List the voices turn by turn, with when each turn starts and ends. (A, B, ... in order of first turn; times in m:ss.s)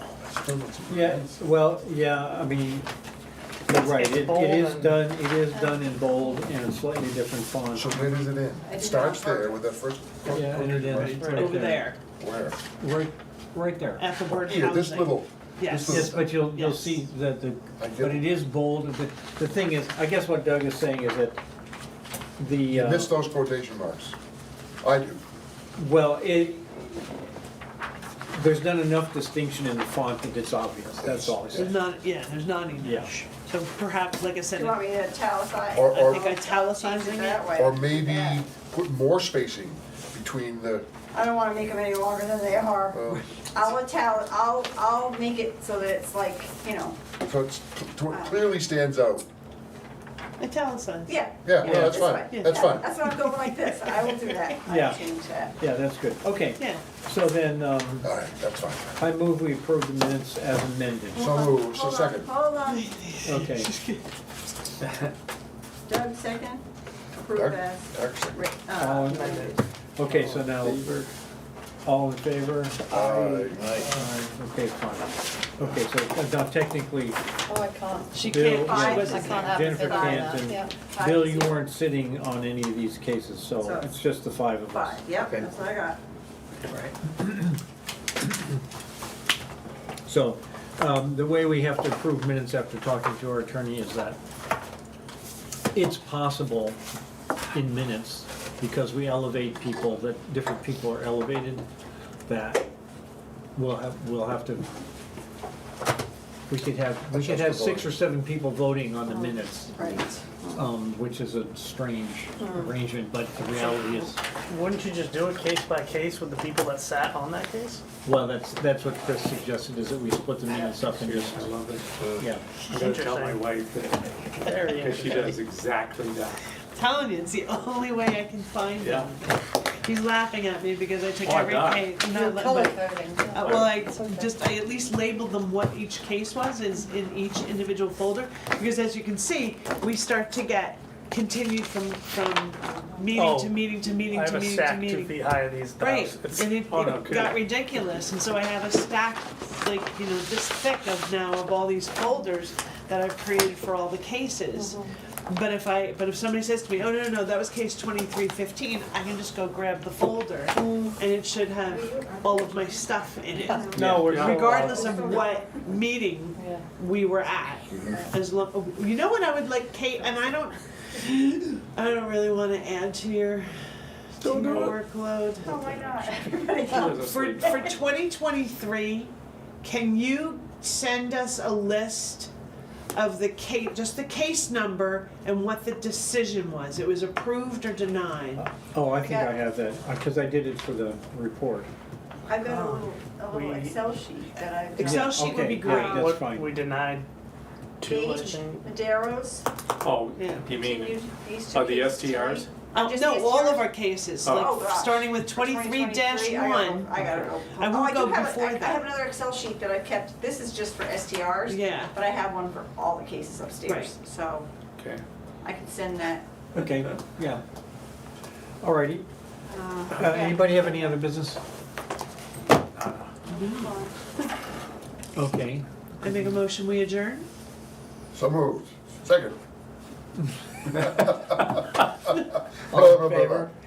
0:00.3-0:01.3 A
0:00.9-0:02.9 B
0:03.7-0:07.9 B
0:03.8-0:04.9 C
0:07.7-0:12.6 A
0:08.6-0:09.6 D
0:10.3-0:11.9 B
0:11.0-0:12.0 E
0:12.8-0:14.0 B
0:14.0-0:17.0 E
0:14.3-0:16.4 A
0:15.8-0:21.4 B
0:17.8-0:18.3 A
0:22.4-0:23.1 B
0:22.7-0:24.2 A
0:24.8-0:25.2 A
0:25.8-0:27.2 B
0:28.3-0:31.8 B
0:31.0-0:31.8 A
0:31.5-0:34.8 E
0:32.8-0:33.1 B
0:34.5-0:38.4 D
0:35.7-0:36.3 A
0:35.9-0:37.5 E
0:37.5-0:40.8 A
0:41.1-0:47.0 D
0:42.9-0:43.3 A
0:47.2-0:49.2 A
0:48.1-0:48.5 D
0:50.4-0:51.1 E
0:51.1-0:55.5 D
0:51.4-0:53.1 A
0:51.6-0:52.0 B
0:52.3-0:52.6 E
0:54.0-0:54.4 E
0:54.6-0:58.1 B
0:56.6-0:56.8 E
0:58.0-0:59.0 A
0:59.0-1:01.2 B
1:01.1-1:02.3 A
1:01.1-1:02.9 D
1:02.7-1:04.0 E
1:03.2-1:03.7 B
1:05.8-1:06.6 D
1:07.1-1:09.6 D
1:07.3-1:08.4 A
1:08.7-1:11.1 B
1:11.8-1:17.2 B
1:12.9-1:13.9 A
1:17.5-1:20.7 F
1:18.1-1:19.4 E
1:18.2-1:25.4 B
1:18.5-1:21.7 D
1:23.6-1:23.9 D
1:24.7-1:26.0 D
1:26.7-1:27.6 B
1:30.0-1:34.2 B
1:35.7-1:36.8 B
1:37.5-1:41.6 B
1:42.3-1:42.6 B
1:43.5-1:44.6 B
1:46.5-1:50.0 B
1:47.1-1:47.9 A
1:49.1-1:50.6 D
1:50.5-1:54.2 B
1:52.4-1:52.7 D
1:54.5-1:57.8 C
1:58.0-2:01.5 B
2:00.8-2:02.0 G
2:02.7-2:06.4 G
2:02.8-2:03.4 C
2:04.5-2:05.2 E
2:04.8-2:05.3 C
2:06.7-2:53.5 E
2:08.8-2:09.0 G
2:11.2-2:12.0 G
2:12.0-2:14.3 F
2:13.4-2:13.8 G
2:23.2-2:23.6 C
2:24.1-2:27.2 C
2:26.7-2:27.3 G
2:34.6-2:34.9 F
2:40.6-2:40.9 F
2:43.4-2:45.5 D
2:43.5-2:44.2 F
2:43.7-2:44.6 B
2:44.0-2:44.8 C
2:44.1-2:44.4 G
2:46.4-2:46.6 F
2:54.1-2:55.6 E
2:54.2-2:54.7 D
2:54.3-2:54.8 G
2:55.4-2:57.7 D
2:55.7-2:56.0 G
2:56.6-2:57.7 G
2:56.9-3:02.3 E
3:02.9-3:08.5 E
3:08.4-3:11.7 B
3:09.0-3:09.3 D
3:12.3-3:16.1 D
3:12.4-3:13.4 E
3:13.4-3:13.8 C
3:14.8-3:16.3 E
3:14.8-3:16.5 B
3:15.8-3:17.0 C
3:17.8-3:18.6 C
3:17.8-3:19.5 D
3:19.8-3:21.0 G
3:20.2-3:20.4 E
3:20.4-3:23.7 D
3:21.5-3:22.5 G
3:22.7-3:28.8 E
3:24.2-3:24.5 G
3:24.2-3:34.5 D
3:31.5-3:31.9 E
3:33.6-3:33.9 E
3:35.4-3:36.2 D
3:36.5-3:37.4 B
3:38.6-3:39.0 B
3:39.5-3:41.0 D
3:40.0-3:41.4 B
3:43.3-3:44.1 D
3:43.3-3:43.7 E
3:45.1-3:45.6 B
3:46.0-3:47.2 E
3:48.1-3:49.4 A
3:50.7-3:51.6 A
3:52.6-3:53.5 A
3:52.7-3:53.5 B